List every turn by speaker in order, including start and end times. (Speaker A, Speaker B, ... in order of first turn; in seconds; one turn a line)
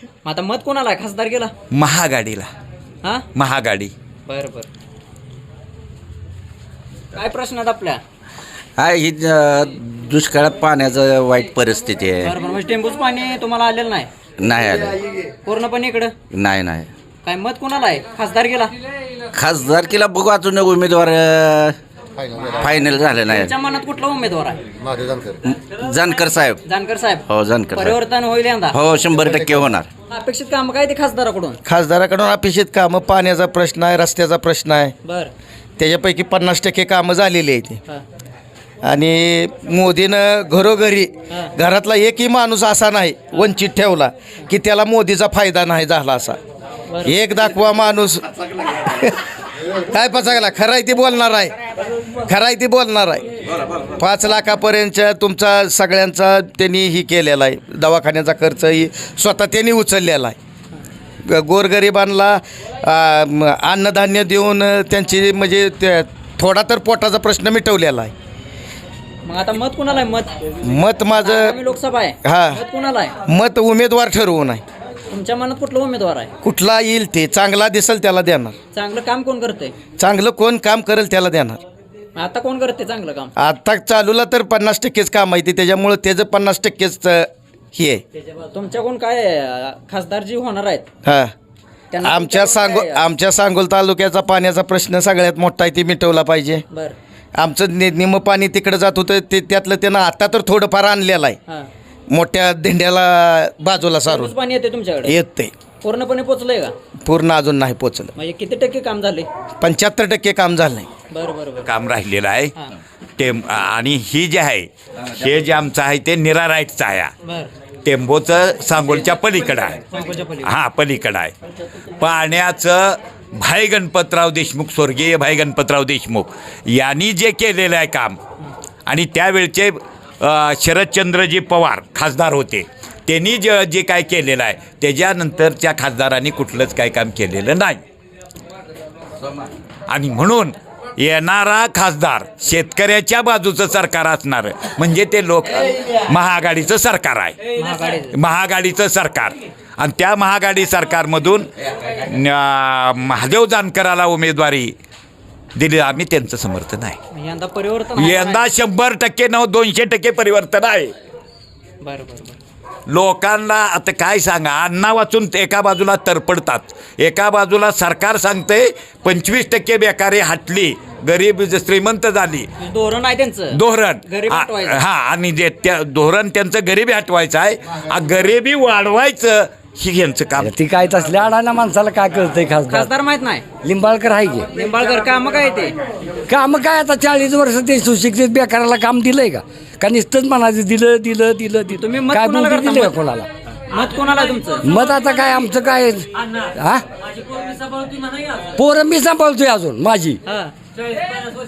Speaker A: 0.2-1.5
Speaker B: 1.7-2.5
Speaker B: 3.3-3.9
Speaker A: 4.3-4.7
Speaker A: 7.2-8.0
Speaker C: 8.8-12.3
Speaker A: 12.2-14.1
Speaker C: 14.4-15.0
Speaker A: 15.4-16.1
Speaker C: 16.3-16.9
Speaker A: 17.2-18.7
Speaker C: 19.3-21.8
Speaker C: 22.6-23.5
Speaker A: 23.3-24.6
Speaker C: 25.4-26.6
Speaker A: 26.6-28.8
Speaker C: 27.3-28.0
Speaker C: 28.7-29.9
Speaker A: 30.1-31.6
Speaker D: 31.6-34.9
Speaker A: 35.0-35.3
Speaker D: 35.8-37.8
Speaker D: 38.8-46.4
Speaker D: 47.0-49.1
Speaker D: 49.8-51.5
Speaker D: 52.2-53.2
Speaker D: 54.0-60.4
Speaker D: 61.2-68.1
Speaker A: 69.2-70.3
Speaker D: 70.6-71.6
Speaker A: 71.2-73.1
Speaker D: 72.2-72.6
Speaker D: 73.2-74.6
Speaker A: 75.1-76.3
Speaker D: 76.4-78.5
Speaker A: 78.7-79.7
Speaker D: 80.0-81.6
Speaker A: 82.2-83.3
Speaker D: 83.4-88.0
Speaker A: 88.5-90.8
Speaker D: 91.0-91.3
Speaker A: 91.9-93.0
Speaker D: 92.0-96.6
Speaker D: 97.3-101.4
Speaker D: 102.1-104.3
Speaker A: 104.1-105.1
Speaker D: 105.0-105.5
Speaker A: 105.8-106.7
Speaker D: 107.0-108.1
Speaker A: 108.2-109.3
Speaker D: 109.6-110.9
Speaker A: 111.1-111.7
Speaker B: 111.7-112.5
Speaker B: 113.2-117.1
Speaker A: 117.2-117.5
Speaker B: 117.8-119.8
Speaker A: 119.9-120.5
Speaker B: 120.5-121.3
Speaker B: 122.0-128.2
Speaker B: 128.9-137.8
Speaker B: 139.9-147.4
Speaker A: 147.6-148.2
Speaker B: 148.1-151.5
Speaker B: 152.1-154.7
Speaker B: 155.6-157.0
Speaker A: 157.1-158.5
Speaker B: 158.0-160.9
Speaker A: 161.8-162.3
Speaker B: 162.9-172.5
Speaker A: 172.6-174.8
Speaker B: 173.5-180.5
Speaker E: 180.4-182.9
Speaker A: 182.7-183.4
Speaker E: 183.6-184.5
Speaker A: 184.5-185.7
Speaker E: 186.3-193.3
Speaker A: 191.7-193.0
Speaker A: 193.7-194.7
Speaker E: 194.6-196.8
Speaker E: 198.5-200.2
Speaker A: 200.3-200.5